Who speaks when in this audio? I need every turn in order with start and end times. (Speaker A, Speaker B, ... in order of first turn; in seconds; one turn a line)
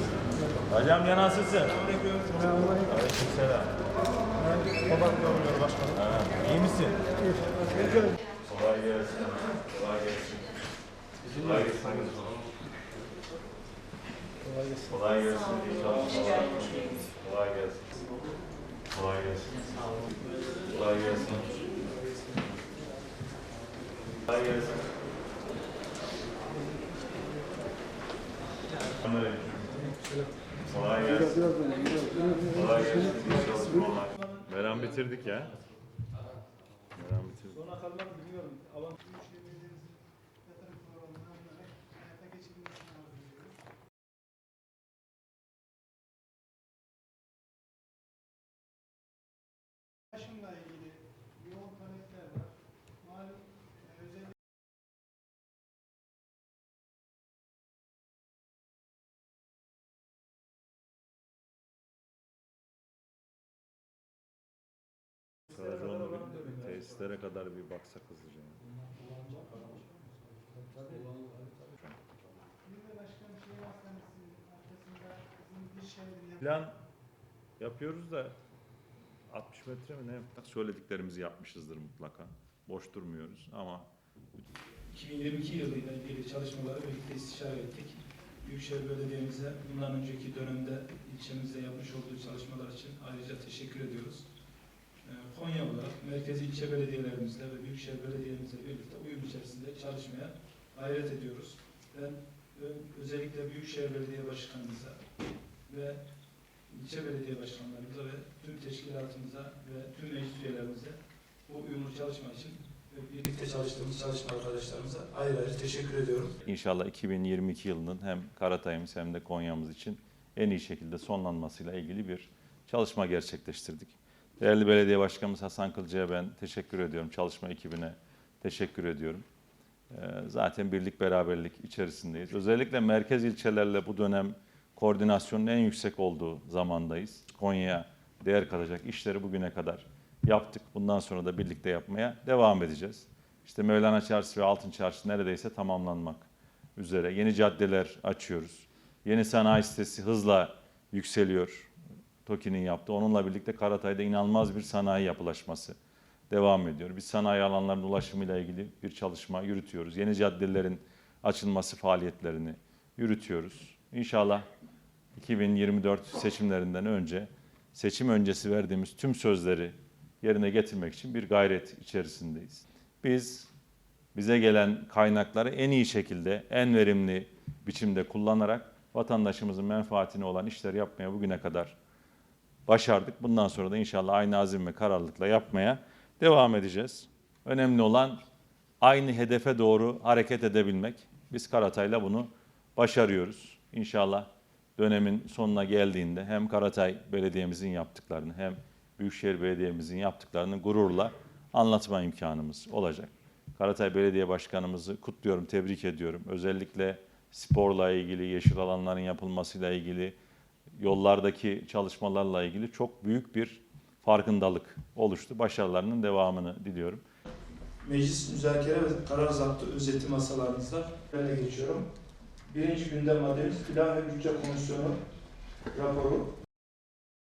Speaker A: 0.7-1.9
Speaker B: 1.9-2.6
Speaker A: 2.7-3.8
Speaker A: 4.9-7.0
Speaker A: 7.6-10.5
Speaker A: 11.2-12.4
Speaker A: 14.8-18.0
Speaker A: 18.9-19.9
Speaker A: 20.6-21.8
Speaker A: 24.3-24.9
Speaker A: 28.9-29.9
Speaker A: 30.7-31.8
Speaker A: 32.4-35.6
Speaker B: 34.1-34.4
Speaker A: 36.9-37.6
Speaker B: 37.5-39.0
Speaker C: 39.1-39.9
Speaker C: 40.5-43.5
Speaker C: 50.1-52.4
Speaker A: 65.5-68.6
Speaker B: 69.0-69.8
Speaker B: 70.7-71.3
Speaker A: 71.7-72.0
Speaker C: 72.6-76.4
Speaker A: 76.4-76.8
Speaker A: 77.6-78.4
Speaker A: 79.3-84.4
Speaker B: 84.9-94.2
Speaker B: 95.0-105.0
Speaker B: 105.7-106.0
Speaker B: 106.7-116.3
Speaker A: 116.4-129.2
Speaker A: 129.9-151.7
Speaker A: 152.2-155.8
Speaker A: 156.3-164.4
Speaker A: 165.2-173.5
Speaker A: 174.1-181.8
Speaker A: 182.7-188.2
Speaker A: 188.8-210.1
Speaker A: 210.8-217.0
Speaker B: 217.8-221.9
Speaker B: 222.5-225.0
Speaker B: 225.7-226.3